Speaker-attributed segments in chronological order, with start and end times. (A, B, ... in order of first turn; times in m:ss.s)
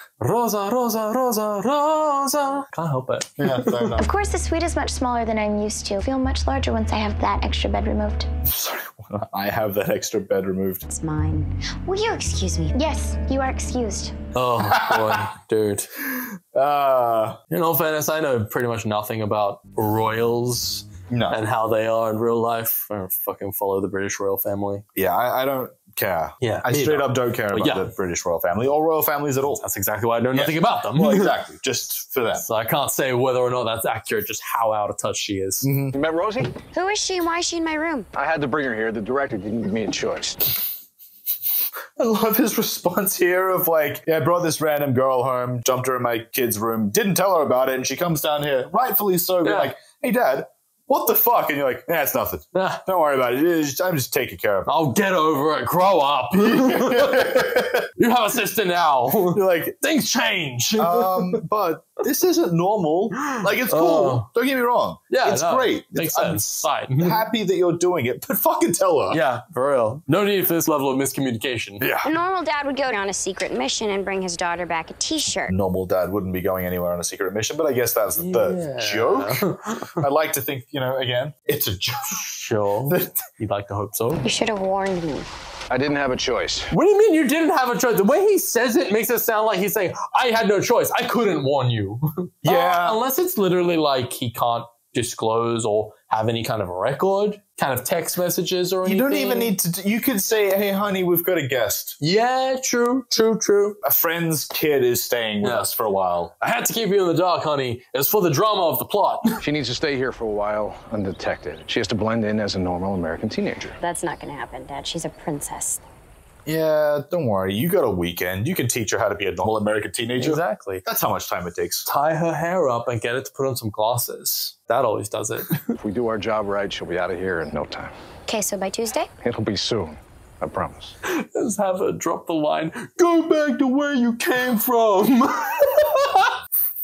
0:00.2-0:03.9 A
0:03.4-0:04.1 B
0:04.0-0:08.3 C
0:08.4-0:10.9 B
0:10.9-0:12.8 D
0:12.7-0:14.2 C
0:14.4-0:15.9 A
0:14.6-0:15.2 B
0:16.1-0:17.4 B
0:17.5-0:24.8 A
0:21.1-0:21.4 B
0:25.0-0:29.6 B
0:26.4-0:27.9 A
0:29.6-0:31.3 A
0:30.3-0:32.4 B
0:32.4-0:35.7 A
0:35.6-0:36.0 B
0:35.9-0:36.5 E
0:36.7-0:38.1 D
0:38.2-0:40.4 E
0:42.0-0:54.7 B
0:49.4-0:49.7 A
0:52.6-0:52.8 A
0:54.7-1:01.4 A
0:56.4-0:57.9 B
0:59.3-0:59.8 B
1:00.8-1:09.2 B
1:03.7-1:04.3 A
1:05.1-1:07.2 A
1:09.1-1:11.9 A
1:12.0-1:15.5 D
1:15.5-1:19.4 B
1:18.2-1:20.0 A
1:20.0-1:22.3 B
1:22.1-1:24.2 A
1:22.9-1:23.2 B
1:24.2-1:25.3 D
1:25.7-1:26.7 E
1:26.7-1:39.6 A
1:32.4-1:33.0 B
1:38.8-1:42.0 B
1:42.0-1:43.8 A
1:43.8-1:46.3 B
1:45.4-1:45.7 A
1:46.4-1:49.3 A
1:49.4-1:53.8 E
1:53.8-1:55.8 D
1:56.5-2:01.9 B
2:00.2-2:00.8 A
2:01.9-2:05.7 A
2:05.8-2:07.9 E
2:08.3-2:09.1 D
2:09.2-2:10.9 E
2:11.1-2:16.3 A